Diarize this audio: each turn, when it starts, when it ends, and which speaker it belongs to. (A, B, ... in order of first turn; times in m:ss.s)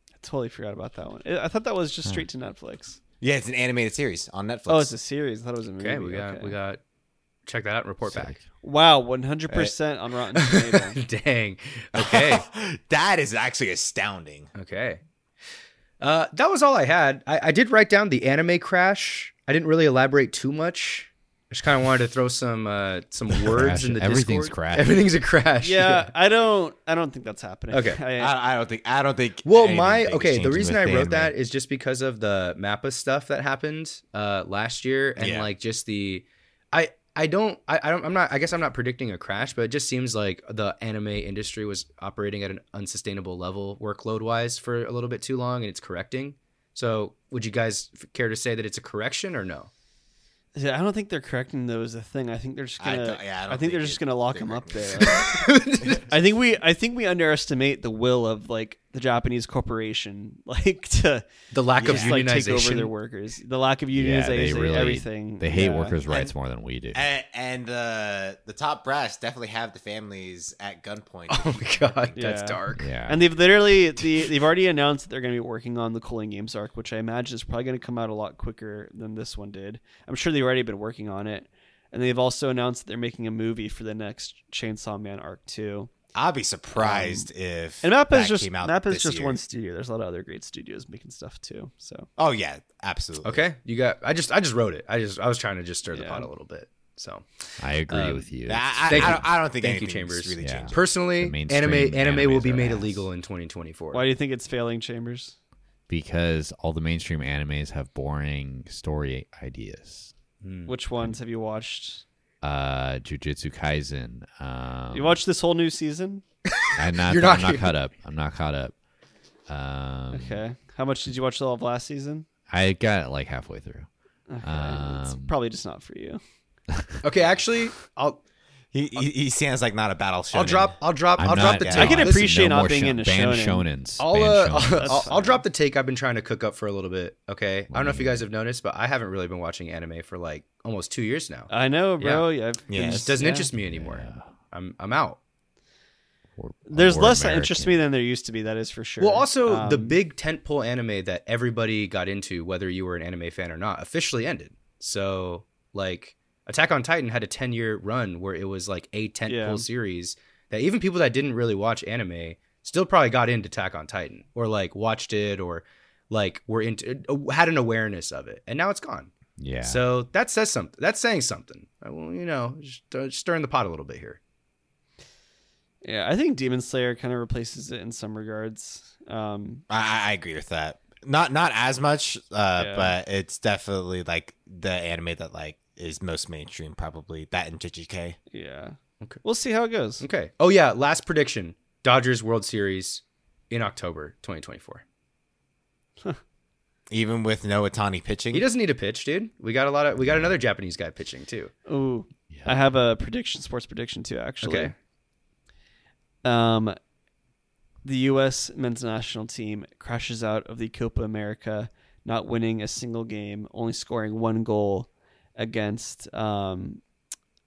0:00.2-0:03.0 A
0:03.2-0:04.9 B
0:04.7-0:06.6 A
0:05.8-0:06.8 C
0:07.5-0:08.4 C
0:08.1-0:08.4 D
0:08.6-0:11.0 A
0:09.5-0:09.7 B
0:10.4-0:12.4 C
0:11.9-0:14.5 B
0:14.6-0:15.0 C
0:16.0-0:26.1 C
0:23.4-0:25.0 D
0:25.6-0:28.3 A
0:27.7-0:28.0 C
0:28.2-0:31.3 B
0:29.4-0:49.7 C
0:35.2-0:35.5 B
0:50.6-0:55.4 A
0:52.8-0:56.0 B
0:55.1-0:56.0 C
0:56.0-1:01.2 A
1:01.5-1:02.9 C
1:01.8-1:02.2 B
1:01.8-1:06.0 A
1:03.9-1:07.0 D
1:06.9-1:12.2 B
1:11.3-1:12.9 C
1:12.2-1:25.9 A
1:12.8-1:13.2 D
1:26.2-1:29.4 B
1:26.7-1:27.3 A
1:27.8-1:32.1 A
1:32.2-1:33.5 B
1:33.2-1:38.3 C
1:35.9-1:36.3 A
1:37.6-1:39.3 D
1:38.5-1:40.8 B
1:38.9-1:44.0 C
1:40.4-1:43.1 D
1:43.9-1:45.4 A
1:45.9-1:50.1 D
1:50.4-1:50.7 C
1:50.7-1:52.0 A
1:52.4-1:55.2 D
1:54.9-1:56.2 A
1:56.6-1:57.7 C
1:56.8-1:58.8 D
1:59.5-2:00.4 D
2:00.1-2:02.3 A
2:02.5-2:03.9 D
2:04.3-2:06.2 A
2:04.4-2:05.3 D
2:06.7-2:07.0 D
2:07.0-2:08.2 C
2:08.7-2:10.8 B
2:10.3-2:12.2 C
2:11.2-2:15.1 D
2:11.3-2:12.0 B
2:11.8-2:13.7 A
2:14.0-2:25.2 C
2:14.6-2:15.4 A
2:17.7-2:18.2 D
2:21.5-2:23.5 A
2:22.7-2:23.2 B
2:23.6-2:24.3 D
2:26.4-2:27.8 D
2:26.7-2:30.0 A
2:29.0-2:54.2 C
2:39.2-2:39.7 A
2:49.4-2:49.8 D
2:55.8-2:59.6 A
2:59.7-3:08.2 B
3:02.6-3:03.0 A
3:08.3-3:10.0 A
3:10.0-3:14.8 C
3:16.9-3:18.5 B
3:18.3-3:21.5 C
3:20.0-3:20.4 D
3:21.7-3:24.7 A
3:22.3-3:22.8 D
3:24.4-3:24.7 C
3:26.2-3:26.8 A
3:27.8-3:36.8 A